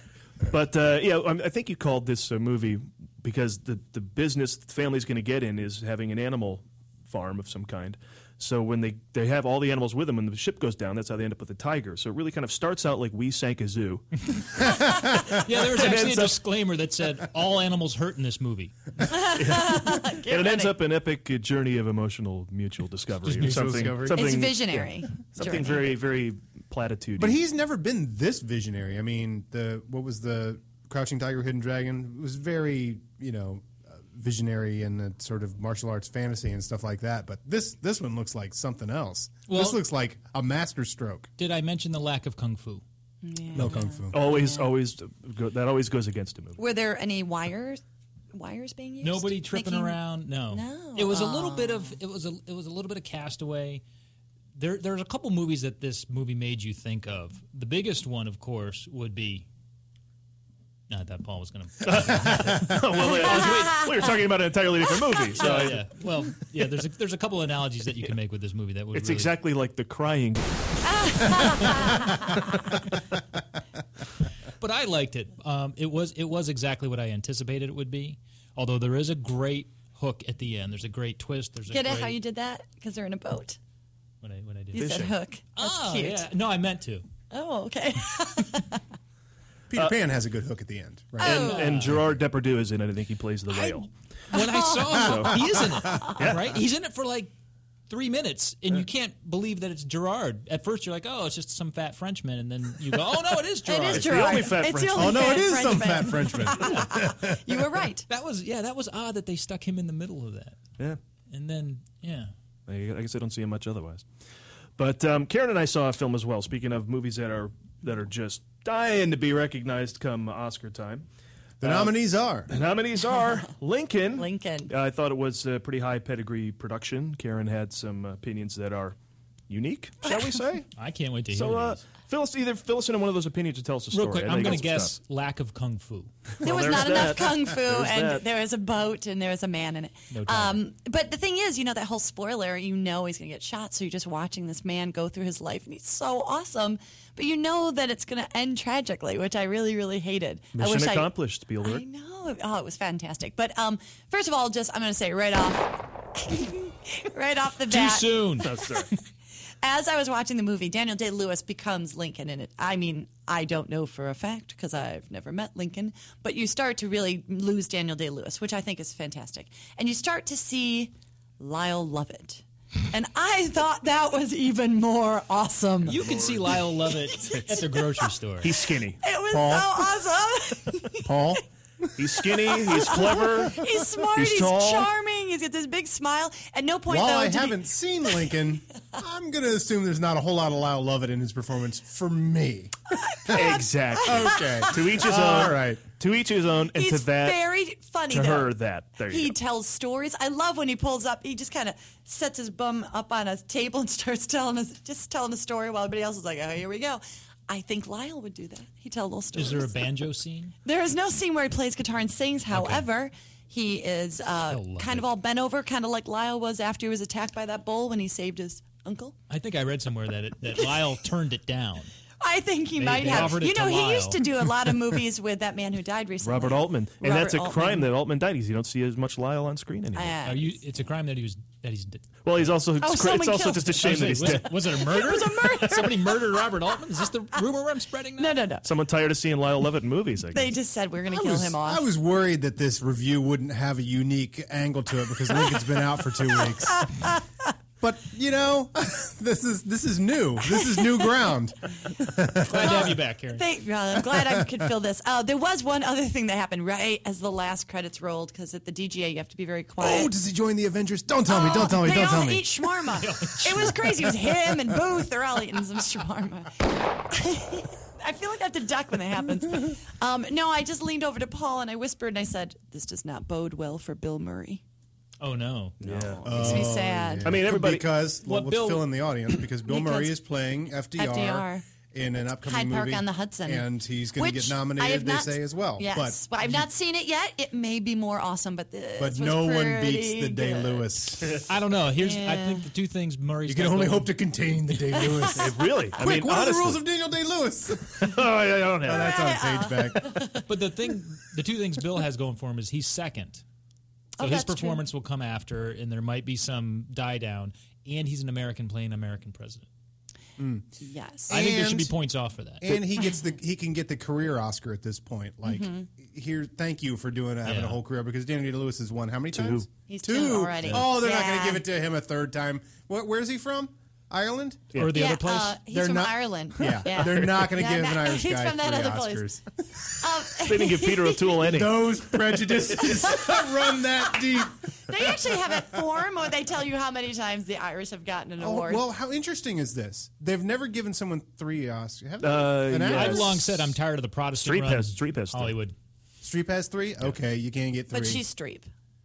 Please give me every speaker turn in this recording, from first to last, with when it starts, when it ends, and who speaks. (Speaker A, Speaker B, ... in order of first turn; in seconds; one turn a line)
Speaker A: 0.5-14.1
Speaker A: 15.3-16.4
Speaker B: 15.3-18.8
Speaker C: 19.1-20.8
Speaker A: 19.4-27.4
Speaker D: 23.3-24.4
Speaker B: 23.4-23.7
Speaker C: 24.1-25.9
Speaker D: 27.2-41.3
Speaker B: 39.5-39.8
Speaker B: 41.4-42.8
Speaker C: 43.2-44.7
Speaker D: 43.5-44.2
Speaker A: 44.1-46.6
Speaker C: 46.6-47.8
Speaker C: 48.3-52.0
Speaker B: 49.0-53.8
Speaker B: 54.6-59.5
Speaker B: 60.9-63.9
Speaker A: 61.8-65.9
Speaker C: 63.3-64.1
Speaker B: 65.4-69.3
Speaker A: 68.9-71.7
Speaker C: 70.9-72.2
Speaker B: 74.6-82.2
Speaker C: 81.7-83.6
Speaker B: 84.2-85.0
Speaker C: 84.7-86.3
Speaker A: 84.8-85.2
Speaker B: 85.5-87.0
Speaker C: 87.3-88.8
Speaker D: 89.7-92.0
Speaker C: 91.2-91.7
Speaker A: 91.2-93.9
Speaker B: 91.3-92.0
Speaker B: 93.5-97.3
Speaker C: 94.3-95.1
Speaker A: 94.9-95.4
Speaker A: 96.2-96.6
Speaker B: 97.9-104.5
Speaker C: 103.7-108.1
Speaker A: 103.9-105.6
Speaker D: 104.9-107.7
Speaker B: 108.1-110.6
Speaker B: 111.3-112.3
Speaker A: 112.7-114.1
Speaker A: 114.8-121.1
Speaker A: 121.6-122.0
Speaker D: 121.6-122.5
Speaker A: 122.5-129.0
Speaker C: 124.2-124.7
Speaker A: 129.5-130.7
Speaker B: 130.8-131.8
Speaker A: 131.3-134.9
Speaker B: 133.9-136.1
Speaker A: 136.4-138.2
Speaker C: 136.4-158.2
Speaker B: 140.1-140.6
Speaker A: 150.6-151.8
Speaker B: 157.7-158.5
Speaker A: 158.4-158.9
Speaker C: 159.6-178.1
Speaker B: 175.8-178.5
Speaker A: 175.9-176.5
Speaker A: 178.4-179.0
Speaker C: 179.0-181.4
Speaker D: 179.3-179.9
Speaker D: 181.0-181.4
Speaker A: 182.0-184.9
Speaker C: 182.5-187.6
Speaker D: 186.9-195.8
Speaker C: 193.0-195.5
Speaker A: 193.3-197.4
Speaker C: 196.8-198.5
Speaker A: 198.1-199.3
Speaker C: 199.1-209.9
Speaker B: 209.3-210.5
Speaker C: 210.7-219.2
Speaker B: 212.5-212.9
Speaker B: 214.5-215.1
Speaker B: 219.3-221.9
Speaker C: 222.2-227.9
Speaker B: 222.8-224.2
Speaker A: 223.0-223.4
Speaker A: 226.2-230.2
Speaker C: 229.9-230.6
Speaker B: 230.2-232.1
Speaker A: 232.2-234.6
Speaker C: 232.8-236.5
Speaker B: 233.8-238.4
Speaker C: 238.2-238.7
Speaker A: 238.6-240.6
Speaker C: 240.3-241.8
Speaker D: 241.1-247.1
Speaker C: 246.4-247.2
Speaker D: 247.8-252.9
Speaker C: 250.8-251.1
Speaker B: 252.4-253.5
Speaker C: 252.6-260.1
Speaker D: 254.1-254.5
Speaker D: 259.8-262.9
Speaker C: 261.3-274.6
Speaker B: 263.0-264.0
Speaker B: 275.2-276.4
Speaker A: 275.8-276.7
Speaker D: 276.2-286.6
Speaker C: 276.3-277.3
Speaker A: 277.2-277.9
Speaker B: 278.2-278.9
Speaker C: 279.7-280.2
Speaker C: 281.0-281.6
Speaker C: 282.4-290.9
Speaker D: 289.0-291.4
Speaker B: 291.5-294.1
Speaker C: 292.0-292.7
Speaker D: 293.5-298.2
Speaker A: 295.3-296.8
Speaker A: 297.9-299.2
Speaker D: 298.8-300.3
Speaker C: 299.0-300.4
Speaker B: 300.5-303.4
Speaker C: 304.2-304.8
Speaker B: 304.2-309.7
Speaker D: 310.4-310.7
Speaker C: 310.8-311.4
Speaker D: 311.3-311.9
Speaker B: 311.3-312.8
Speaker D: 312.6-324.7
Speaker C: 315.4-315.9
Speaker B: 317.4-317.8
Speaker A: 319.3-319.7
Speaker C: 319.9-321.6
Speaker A: 324.7-325.0
Speaker B: 324.8-325.6
Speaker C: 324.9-329.3
Speaker D: 325.7-329.8
Speaker A: 326.7-327.4
Speaker C: 330.0-331.4
Speaker A: 330.4-332.6
Speaker D: 331.4-335.8
Speaker C: 332.8-333.7
Speaker C: 334.9-338.9
Speaker D: 338.4-343.5
Speaker A: 342.2-343.6
Speaker B: 342.9-345.8
Speaker A: 344.4-345.6
Speaker D: 346.2-348.2
Speaker C: 347.9-348.7